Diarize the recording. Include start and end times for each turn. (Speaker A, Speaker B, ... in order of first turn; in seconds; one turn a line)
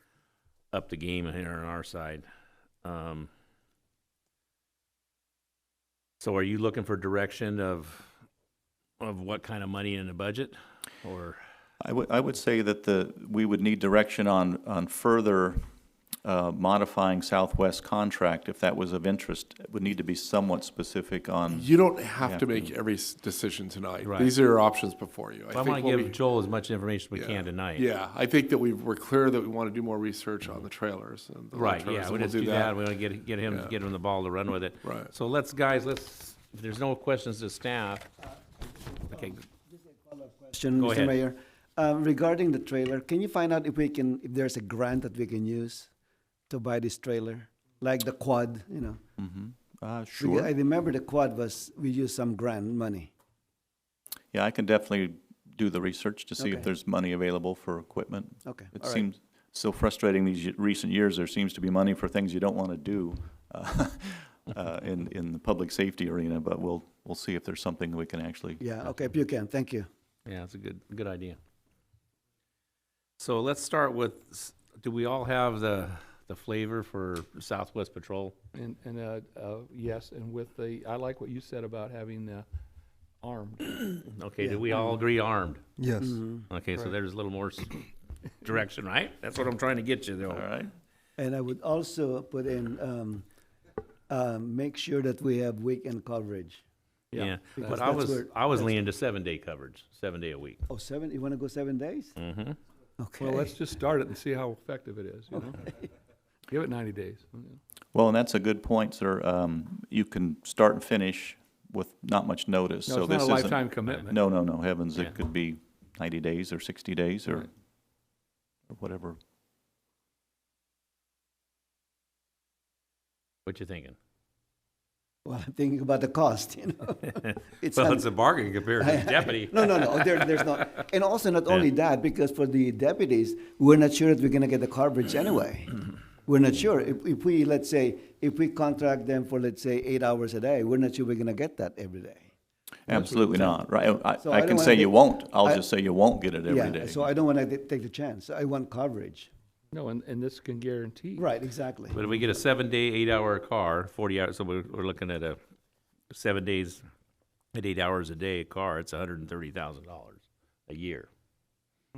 Speaker A: 0.7-2.3
Speaker A: 2.8-3.3
Speaker A: 6.2-8.1
Speaker A: 9.0-11.4
Speaker B: 11.8-15.6
Speaker B: 16.2-21.7
Speaker C: 21.5-26.2
Speaker A: 24.1-24.3
Speaker A: 25.5-27.9
Speaker C: 27.1-32.9
Speaker A: 31.5-38.1
Speaker C: 33.5-33.8
Speaker C: 34.8-35.1
Speaker D: 38.6-45.9
Speaker A: 39.1-39.4
Speaker A: 40.8-41.2
Speaker D: 46.5-49.0
Speaker B: 49.2-50.5
Speaker D: 50.1-53.1
Speaker B: 54.3-68.6
Speaker D: 56.4-56.7
Speaker D: 58.5-59.0
Speaker D: 68.6-69.9
Speaker A: 70.3-71.4
Speaker A: 73.2-78.3
Speaker E: 78.5-82.5
Speaker E: 83.2-83.7
Speaker A: 83.6-85.6
Speaker D: 84.4-84.9
Speaker D: 86.0-86.5
Speaker A: 86.5-87.9
Speaker A: 88.4-90.5
Speaker B: 90.3-90.7
Speaker D: 91.2-93.3
Speaker D: 94.1-96.6
Speaker E: 97.1-98.0
Speaker A: 97.2-100.6
Speaker D: 97.5-98.8
Speaker D: 100.7-102.2
Speaker A: 102.2-102.6
Speaker D: 103.0-103.5
Speaker E: 103.2-105.8
Speaker D: 105.4-105.8
Speaker E: 106.5-107.6
Speaker B: 107.9-117.5
Speaker E: 112.9-114.2
Speaker B: 118.7-119.2
Speaker A: 123.5-124.0
Speaker D: 125.2-128.1
Speaker A: 127.3-130.2
Speaker D: 128.8-142.3
Speaker B: 142.9-147.0
Speaker D: 142.9-143.6
Speaker D: 144.2-145.6
Speaker D: 146.5-149.3
Speaker E: 149.7-151.3
Speaker D: 151.2-152.0
Speaker A: 151.9-155.4
Speaker A: 156.1-156.8
Speaker A: 157.5-161.1